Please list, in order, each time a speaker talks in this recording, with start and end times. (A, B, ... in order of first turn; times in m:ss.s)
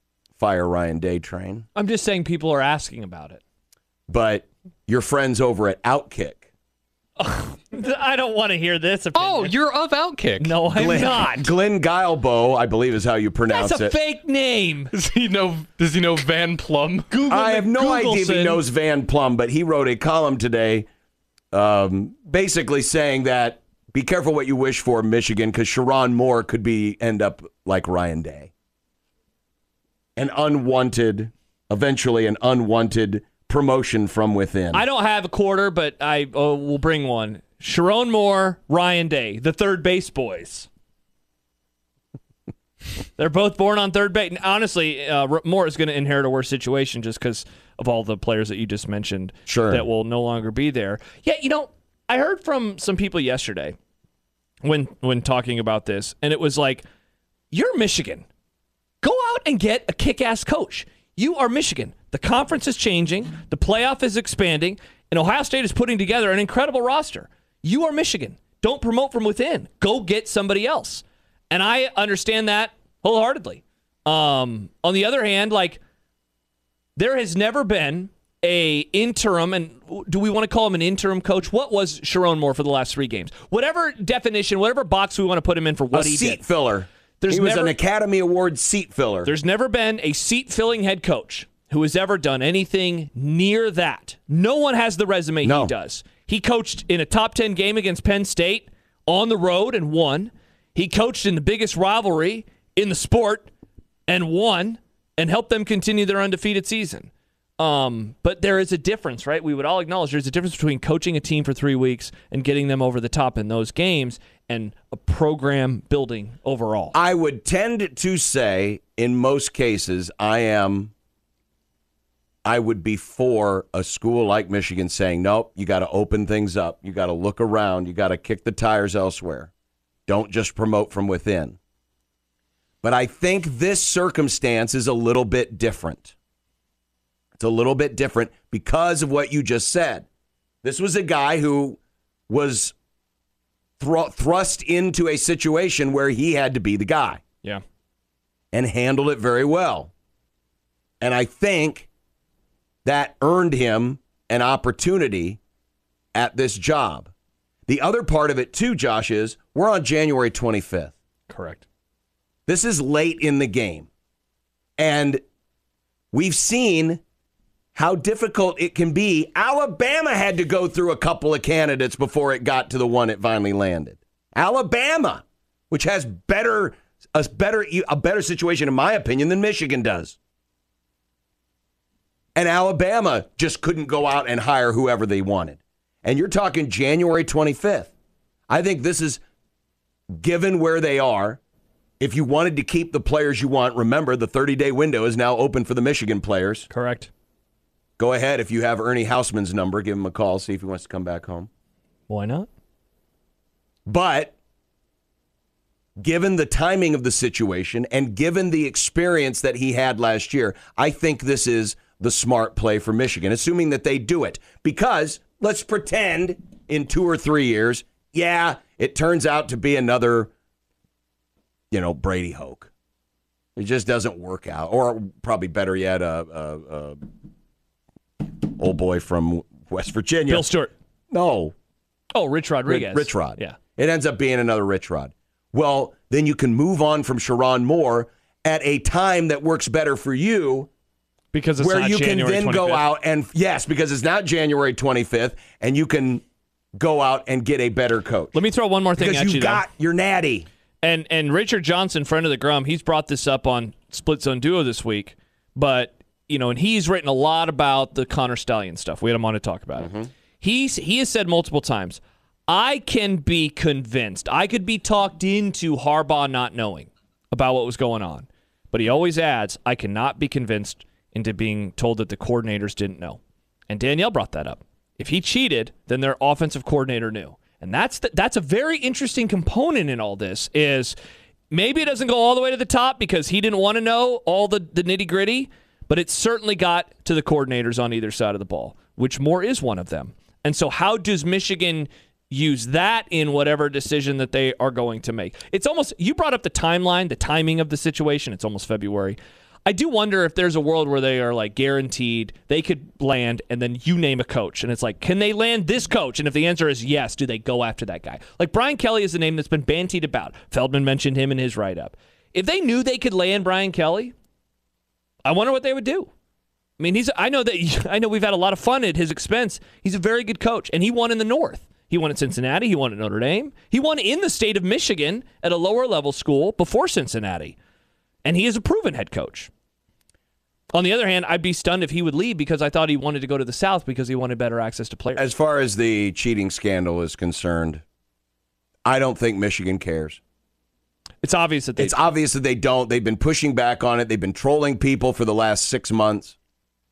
0:00.4-0:01.7 A
0:01.8-0:03.4 B
0:04.1-0:06.5 A
0:07.2-0:09.6 B
0:09.2-0:10.6 C
0:10.4-0:11.5 B
0:10.7-0:14.0 A
0:13.5-0:14.9 B
0:14.9-0:17.2 C
0:17.1-0:18.6 B
0:17.3-0:20.9 A
0:21.5-0:28.5 A
0:30.2-0:34.9 A
0:34.7-0:40.7 B
0:43.2-0:53.8 B
0:49.5-0:49.9 A
0:54.6-0:56.8 B
0:57.5-0:58.3 B
0:59.0-1:15.8 B
1:17.0-1:26.5 B
1:25.9-1:29.3 A
1:27.2-1:27.8 B
1:29.2-1:43.5 B
1:35.4-1:35.7 A
1:44.1-1:57.0 B
1:56.9-2:00.9 A
2:02.4-2:09.5 A
2:10.1-2:11.6 A
2:12.8-2:16.1 A
2:17.4-2:20.1 A
2:20.6-2:21.8 A
2:22.3-2:22.8 A
2:23.8-2:27.2 A
2:28.5-2:29.9 A
2:31.0-2:31.9 A
2:32.8-2:35.4 A
2:36.2-2:37.1 A
2:37.7-2:40.9 A
2:41.3-2:41.6 B
2:42.5-2:43.9 A
2:44.8-2:45.2 A
2:46.1-2:47.0 A
2:47.8-3:00.2 A
3:02.4-3:07.9 A
3:08.5-3:09.2 A
3:10.1-3:11.4 A
3:12.0-3:16.7 A
3:16.7-3:17.1 B
3:18.0-3:21.5 A
3:22.1-3:22.5 B
3:23.9-3:24.3 A
3:26.0-3:40.3 A
3:41.7-3:42.7 A
3:43.6-3:47.0 A
3:48.2-3:50.5 A
3:50.3-3:50.7 B
3:51.1-3:51.5 A
3:52.1-3:53.6 B
3:52.7-4:00.7 A
4:01.3-4:02.9 B
4:01.6-4:06.2 A
4:06.8-4:08.4 A
4:08.3-4:09.6 B
4:09.0-4:10.5 A
4:10.8-4:41.0 B
4:19.8-4:20.1 A
4:41.5-5:14.2 B
5:15.2-5:16.1 B
5:16.8-5:27.6 B
5:28.2-5:29.5 B
5:30.7-5:35.3 B
5:35.2-5:37.8 A
5:38.8-5:40.2 A
5:41.2-5:42.1 B
5:41.8-5:46.4 A